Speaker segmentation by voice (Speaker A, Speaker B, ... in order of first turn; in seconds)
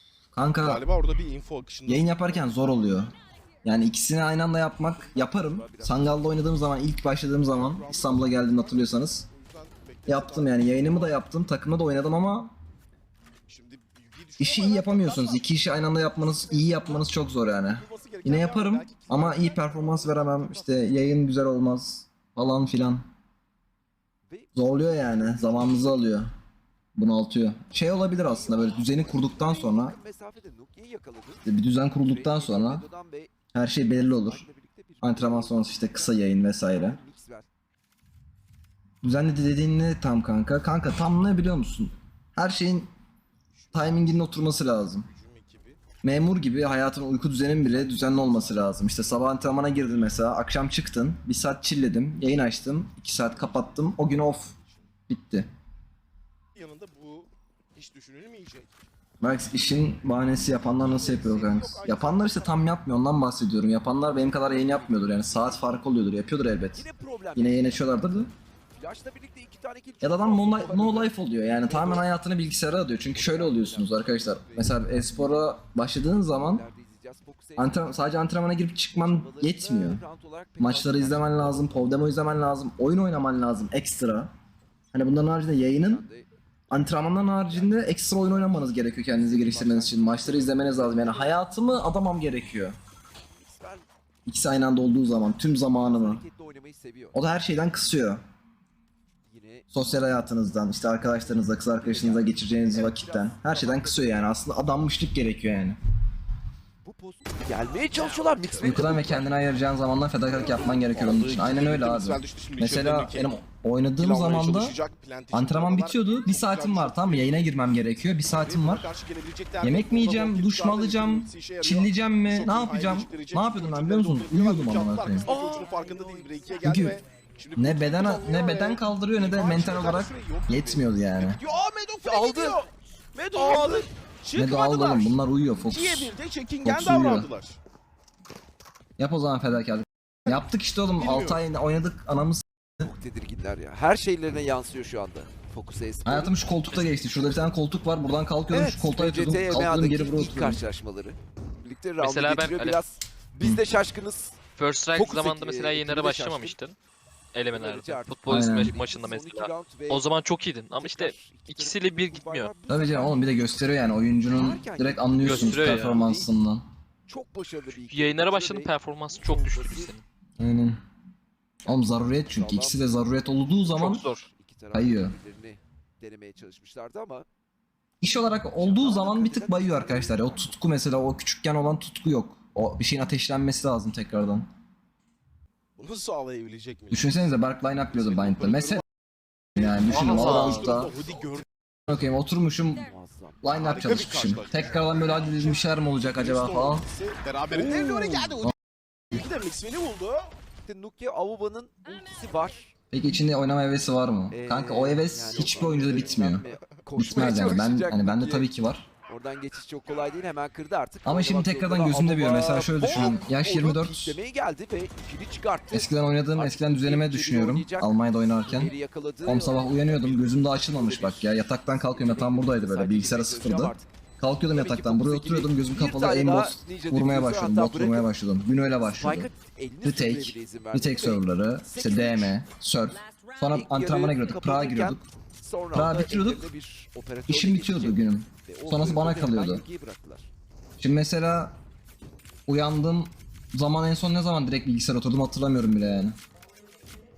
Speaker A: 0.3-0.8, 1.9-3.1, 3.6-9.3, 10.1-12.5, 14.4-23.0, 24.5-26.3, 26.9-29.9, 31.4-32.9, 33.5-34.5, 35.0-37.0, 39.0-42.9, 43.7-45.1, 46.0-54.5, 55.1-55.5, 59.2-68.3, 70.0-76.6, 77.6-80.0, 80.6-84.3, 84.9-86.0, 86.7-92.7, 94.2-96.2, 97.1-98.2, 99.7-105.8, 108.6-114.8, 115.3-118.9, 119.6-125.3, 126.6-127.0, 127.5-131.4, 134.3-137.3, 139.0-142.9, 146.0-150.6, 158.3-158.7, 162.7-166.6, 170.4-170.8, 171.7-174.0, 174.7-175.1, 178.0-184.5, 186.9-188.8, 189.6-190.9, 191.9-192.9, 193.4-196.8, 202.9-208.9, 211.0-214.2, 215.7-218.7, 219.2-229.3, 229.8-235.0, 235.7-236.5, 237.3-239.6, 240.8-241.6, 242.5-246.2
Speaker B: 0.6-2.5, 7.4-11.2, 13.4-15.5, 16.2-17.1, 17.7-21.0, 43.5-45.8, 47.7-48.7, 54.5-54.8, 56.5-58.8, 60.9-62.6, 71.7-72.0, 110.3-113.4, 114.0-117.7, 118.3-137.6, 141.0-141.4, 185.8-188.8, 189.6-191.4, 193.7-198.5, 199.1-200.3, 205.3-206.5
Speaker C: 4.9-6.4, 24.3-25.9, 28.1-31.5, 32.0-33.3, 33.9-36.2, 36.7-37.5, 66.7-68.2, 68.8-71.0, 73.0-75.6, 76.2-78.0, 79.0-82.0, 85.7-86.3, 87.5-91.4, 93.3-93.8, 95.6-97.2, 99.2-99.7, 101.4-104.0, 106.8-109.2, 125.2-125.7, 132.0-132.7, 133.3-133.9, 142.8-146.3, 148.5-156.6, 157.5-160.1, 160.7-163.5, 164.3-166.3, 167.1-169.9, 172.3-172.9, 173.6-177.2, 178.6-180.5, 192.8-194.5, 197.5-198.3, 200.6-202.7, 204.3-208.5, 209.1-223.9, 224.5-228.1, 228.8-232.4, 233.1-240.3
Speaker D: 146.7-147.2, 152.0-152.8, 154.5-156.8, 157.3-162.5, 165.2-166.0, 167.7-170.0, 173.7-174.3, 189.9-190.8